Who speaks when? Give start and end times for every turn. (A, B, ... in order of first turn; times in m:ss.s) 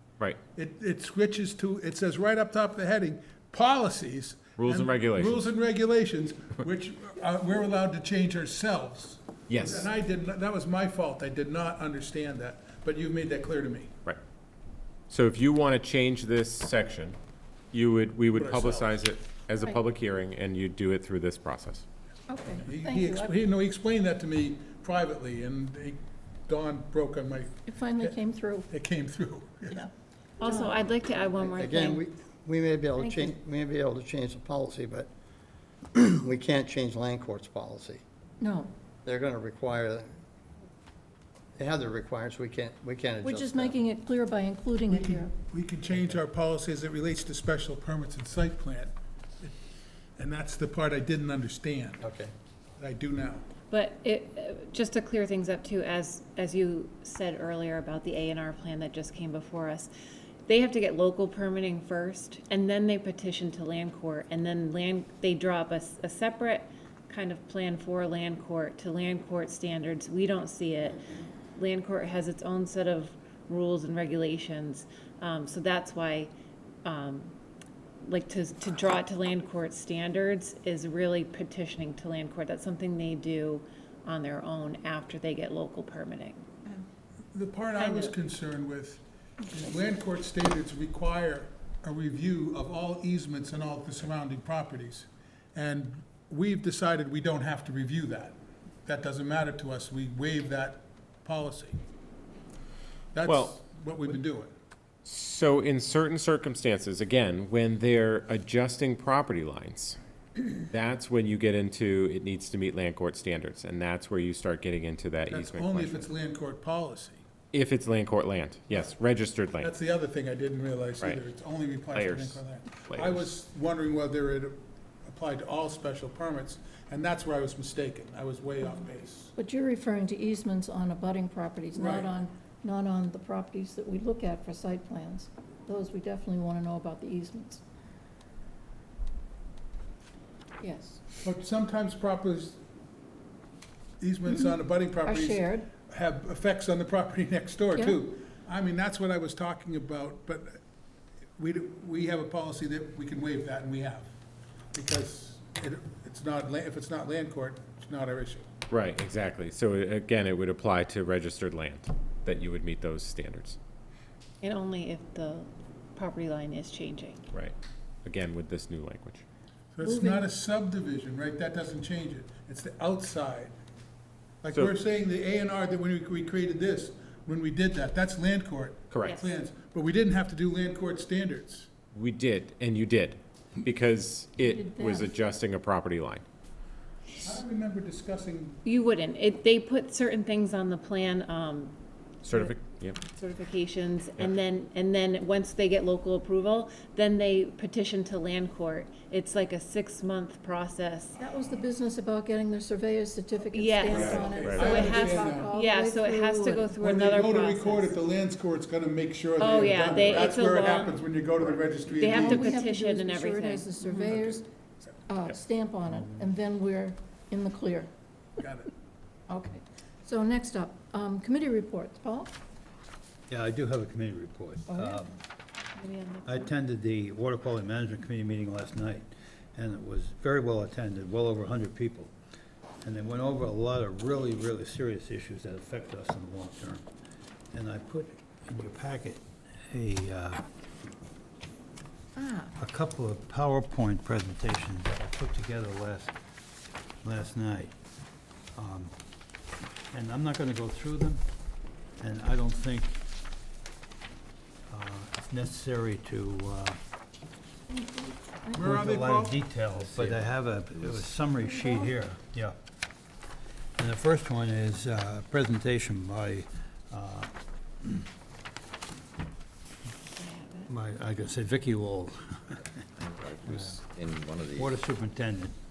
0:00.6-0:13.9 A
0:04.6-0:05.5 B
0:09.5-0:09.9 B
0:15.1-0:17.2 B
0:17.7-0:21.8 B
0:18.3-0:19.0 A
0:22.3-0:23.4 C
0:22.6-0:29.9 A
0:27.7-0:28.7 C
0:30.4-0:32.0 D
0:30.4-0:30.8 C
0:31.4-0:35.1 E
0:33.0-0:33.4 C
0:35.9-0:38.0 E
0:38.4-0:38.7 C
0:39.0-0:40.2 E
0:41.6-0:43.8 E
0:43.2-0:45.3 C
0:44.9-0:49.6 A
0:50.2-0:52.1 A
0:52.0-0:52.3 E
0:52.8-0:53.5 A
0:53.7-0:59.9 D
1:00.5-1:11.0 D
1:11.6-1:16.3 D
1:16.8-1:17.3 D
1:18.0-1:26.7 D
1:27.3-1:41.8 A
1:27.8-1:28.2 D
1:43.1-1:44.5 A
1:43.2-1:43.6 B
1:45.0-1:56.1 B
1:55.3-1:57.2 A
1:57.5-1:59.7 B
1:59.6-2:09.3 A
2:01.9-2:03.3 B
2:09.4-2:17.6 C
2:11.7-2:12.1 A
2:20.6-2:21.0 C
2:21.2-2:22.6 A
2:24.0-2:30.6 A
2:24.3-2:25.7 C
2:27.8-2:28.0 C
2:31.4-2:34.1 A
2:34.7-2:38.5 A
2:38.7-2:43.6 B
2:44.4-2:47.2 D
2:47.3-2:49.2 B
2:49.8-2:53.6 A
2:49.8-2:50.3 C
2:54.4-3:01.7 A
2:58.9-2:59.2 B
2:59.0-2:59.4 D
3:01.9-3:06.2 B
3:04.4-3:05.2 C
3:07.2-3:08.6 A
3:08.6-3:11.7 D
3:12.2-3:13.0 B
3:13.1-3:21.2 D
3:21.2-3:26.7 C
3:23.5-3:24.0 D
3:23.9-3:25.5 A
3:24.0-3:24.8 B
3:24.6-3:27.9 D
3:26.8-3:32.5 A
3:29.4-3:31.0 D
3:32.0-3:33.8 D
3:32.1-3:34.5 C
3:34.1-3:34.4 A
3:35.1-3:37.9 C
3:38.4-3:38.7 A
3:39.3-3:42.4 C
3:43.3-3:45.2 F
3:44.7-3:45.0 C
3:45.8-3:46.5 D
3:46.2-3:52.1 F
3:52.8-3:56.8 F
3:57.5-4:00.4 F
4:02.6-4:06.2 F
4:07.0-4:07.7 F
4:08.6-4:08.9 F
4:09.9-4:11.2 F
4:12.0-4:13.0 F
4:14.7-4:16.8 F
4:17.7-4:18.6 C
4:18.5-4:19.4 A
4:18.6-4:22.6 F
4:19.8-4:20.3 G
4:21.4-4:21.9 C
4:23.8-4:28.0 F
4:30.2-4:30.7 D
4:30.7-4:32.6 F
4:33.0-4:34.8 G
4:33.5-4:33.8 F
4:34.5-4:35.6 F